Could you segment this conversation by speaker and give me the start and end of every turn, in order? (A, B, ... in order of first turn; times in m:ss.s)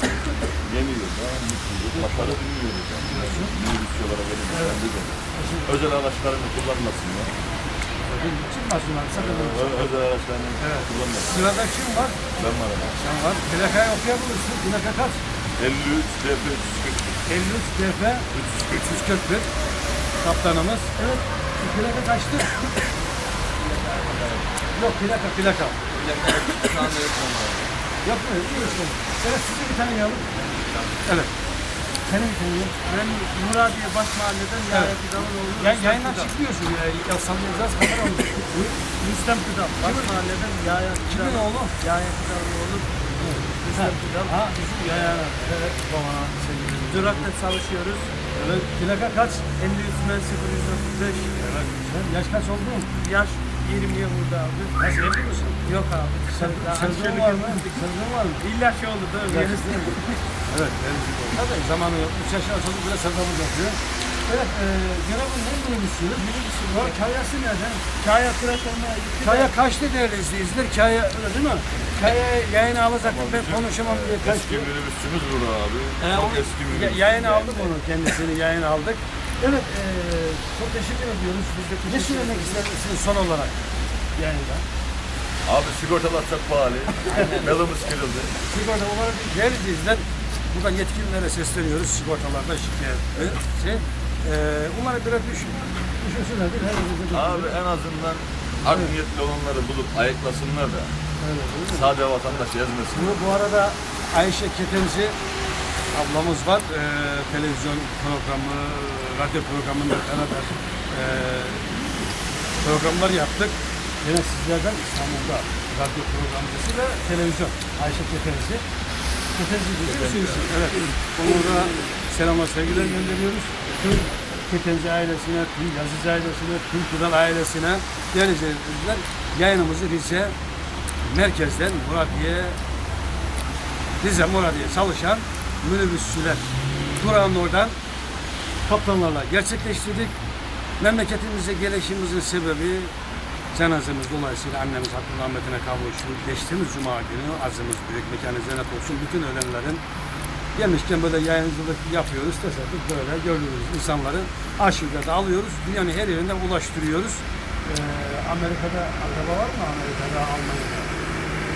0:00.6-0:07.3 A
0:01.9-0:02.4 B
0:03.0-0:03.5 B
0:04.5-0:04.8 B
0:05.3-0:05.7 B
0:08.0-0:10.0 B
0:09.1-0:11.5 A
0:10.6-0:12.3 B
0:12.3-0:13.0 A
0:12.9-0:15.2 B
0:15.6-0:17.2 A
0:17.3-0:19.5 B
0:18.3-0:19.0 A
0:20.2-0:20.9 B
0:21.0-0:21.2 C
0:21.6-0:22.7 B
0:23.6-0:24.5 A
0:24.7-0:25.8 B
0:25.9-0:27.7 A
0:28.0-0:30.3 B
0:28.5-0:28.8 A
0:30.4-0:30.9 A
0:31.0-0:31.3 B
0:32.0-0:32.8 B
0:32.8-0:36.3 C
0:35.6-0:38.8 B
0:38.9-0:43.0 C
0:39.8-0:40.2 B
0:41.1-0:41.8 B
0:43.2-0:47.3 B
0:43.6-0:45.3 C
0:46.8-0:48.2 C
0:48.3-0:49.5 B
0:49.5-0:51.3 C
0:51.4-0:52.9 B
0:53.0-0:55.0 C
0:54.8-0:55.6 B
0:55.6-0:57.8 C
0:56.3-0:58.4 B
0:58.4-1:00.2 C
0:59.3-1:00.0 B
1:00.5-1:07.8 B
1:06.6-1:06.9 C
1:08.0-1:09.5 C
1:09.2-1:14.7 B
1:13.0-1:17.7 A
1:16.0-1:19.7 B
1:19.5-1:22.7 C
1:21.9-1:23.6 B
1:24.2-1:24.6 B
1:25.4-1:28.4 A
1:27.1-1:27.5 B
1:28.5-1:37.6 B
1:37.1-1:40.9 A
1:38.7-1:39.0 B
1:41.2-1:42.4 B
1:41.7-1:43.2 A
1:42.9-1:45.2 B
1:45.9-1:51.8 B
1:52.6-1:58.6 B
1:59.4-2:10.4 B
1:59.8-2:00.5 A
2:11.0-2:12.6 B
2:14.0-2:17.8 B
2:18.6-2:20.2 B
2:20.8-2:22.9 B
2:23.5-2:29.8 B
2:30.6-2:40.9 B